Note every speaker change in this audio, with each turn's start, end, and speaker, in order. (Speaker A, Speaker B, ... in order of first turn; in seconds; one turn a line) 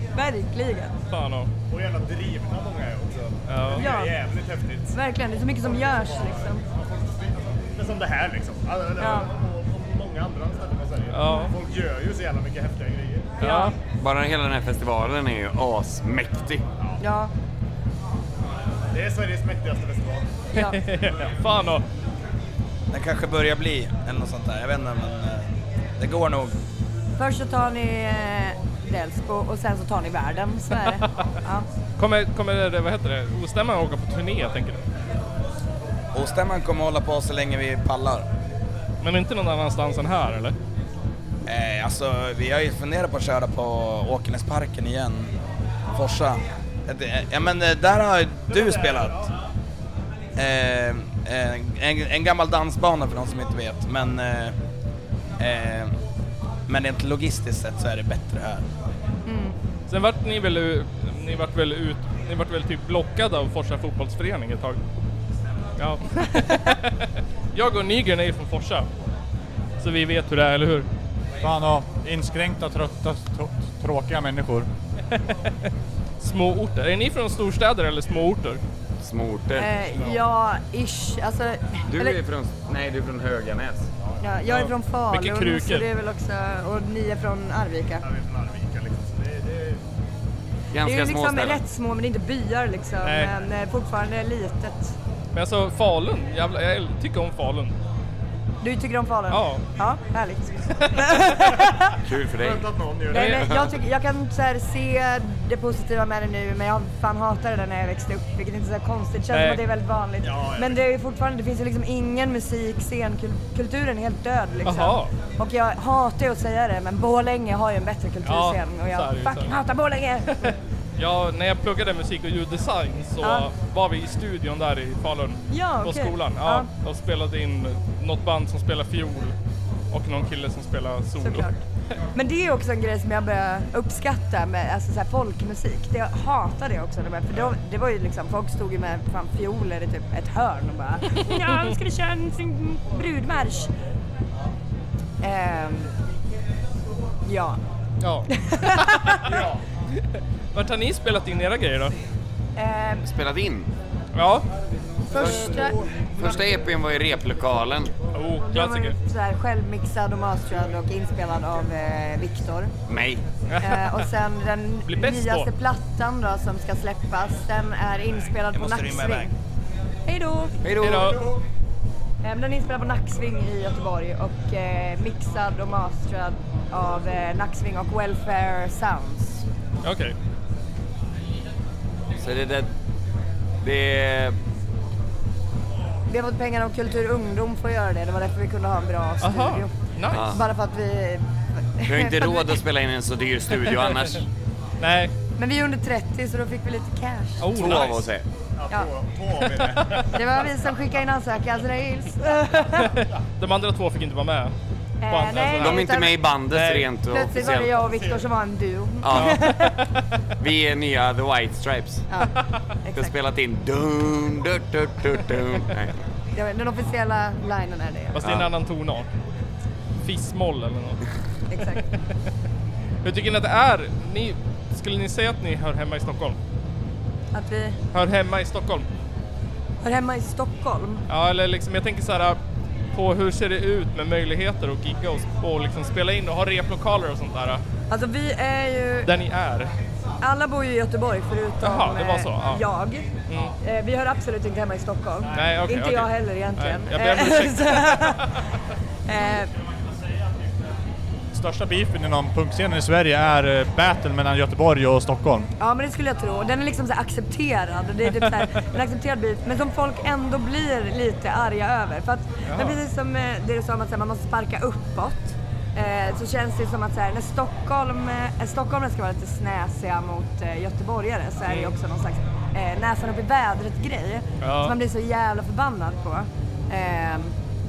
Speaker A: 0.1-0.9
Speaker B: 1.1-1.5
Speaker C: 1.7-5.0
Speaker B: 3.5-3.9
Speaker A: 3.7-4.1
Speaker A: 4.9-6.6
Speaker C: 5.6-13.3
Speaker A: 9.0-9.3
Speaker B: 11.1-11.5
Speaker A: 13.4-13.7
Speaker B: 13.4-13.7
Speaker D: 14.0-16.6
Speaker A: 17.0-17.3
Speaker C: 18.9-20.3
Speaker B: 20.6-21.8
Speaker E: 22.9-26.6
Speaker A: 27.2-31.7
Speaker B: 32.0-34.8
Speaker E: 36.1-38.3
Speaker B: 39.0-40.5
Speaker E: 41.5-45.3
Speaker E: 45.9-49.2
Speaker C: 48.5-49.3
Speaker E: 50.4-54.5
Speaker E: 55.4-55.9
Speaker E: 56.7-58.7
Speaker A: 59.3-59.5
Speaker B: 59.9-64.8
Speaker B: 65.8-68.9
Speaker B: 69.8-70.9
Speaker F: 71.4-74.7
Speaker B: 75.1-75.4
Speaker B: 76.2-78.6
Speaker D: 79.0-79.7
Speaker A: 79.6-82.2
Speaker C: 80.0-80.2
Speaker D: 81.9-83.9
Speaker A: 84.2-88.0
Speaker B: 84.5-85.8
Speaker C: 88.0-89.8
Speaker D: 90.7-91.6
Speaker A: 90.8-95.0
Speaker B: 93.0-93.3
Speaker B: 95.3-97.8
Speaker A: 98.6-102.0
Speaker B: 99.3-99.6
Speaker D: 102.0-102.7
Speaker C: 102.4-103.4
Speaker A: 103.1-120.5
Speaker B: 103.1-103.5
Speaker B: 109.3-109.6
Speaker C: 110.2-110.8
Speaker B: 114.7-115.1
Speaker B: 118.2-119.6
Speaker B: 120.4-129.3
Speaker A: 123.2-123.5
Speaker A: 125.5-126.7
Speaker B: 129.9-131.5
Speaker A: 131.2-131.6
Speaker A: 132.2-143.7
Speaker B: 141.2-141.7
Speaker A: 145.2-145.9
Speaker A: 147.3-147.6
Speaker A: 148.3-149.3
Speaker B: 149.1-149.4
Speaker C: 149.2-149.6
Speaker B: 150.5-151.9
Speaker A: 152.6-153.0
Speaker D: 153.1-153.7
Speaker B: 154.2-154.5
Speaker C: 155.1-156.4
Speaker D: 155.2-155.7
Speaker A: 155.2-155.8
Speaker D: 156.2-157.9
Speaker B: 158.1-158.9
Speaker A: 158.4-162.7
Speaker D: 162.9-163.2
Speaker B: 163.5-164.1
Speaker A: 163.6-169.3
Speaker B: 164.9-165.5
Speaker E: 168.5-169.3
Speaker A: 170.1-170.6
Speaker D: 170.6-171.3
Speaker B: 170.8-171.3
Speaker C: 171.1-171.4
Speaker A: 172.2-179.4
Speaker B: 179.8-180.2
Speaker D: 182.2-182.7
Speaker D: 183.6-184.4
Speaker A: 186.1-191.2
Speaker B: 189.2-190.3
Speaker D: 190.1-190.4
Speaker A: 191.8-192.6
Speaker D: 191.8-194.3
Speaker B: 194.8-195.1
Speaker A: 195.4-197.4
Speaker B: 197.4-198.1
Speaker D: 197.5-198.2
Speaker C: 198.6-200.5
Speaker A: 200.1-203.0
Speaker B: 203.0-204.5
Speaker A: 205.0-206.2
Speaker B: 205.1-205.8
Speaker D: 205.6-207.8
Speaker B: 206.5-206.9
Speaker A: 207.1-209.9
Speaker C: 207.9-208.2
Speaker D: 209.0-209.7
Speaker B: 209.1-209.5
Speaker D: 210.4-212.1
Speaker A: 212.1-213.1
Speaker D: 212.9-216.0
Speaker A: 216.3-218.2
Speaker B: 218.2-219.1
Speaker D: 218.2-218.5
Speaker B: 220.0-221.0
Speaker A: 221.5-221.9
Speaker B: 223.0-226.4
Speaker A: 227.3-227.8
Speaker B: 227.9-228.9
Speaker A: 229.8-231.0
Speaker B: 231.1-232.4
Speaker B: 232.9-237.6
Speaker A: 237.9-239.1
Speaker B: 239.1-239.7
Speaker A: 240.2-243.1
Speaker B: 241.6-242.6
Speaker B: 243.3-243.6
Speaker A: 243.6-248.3
Speaker B: 245.3-248.2
Speaker A: 249.1-249.5
Speaker F: 251.3-255.5
Speaker A: 255.6-277.4
Speaker B: 262.5-262.8
Speaker B: 271.5-271.7
Speaker B: 274.4-274.8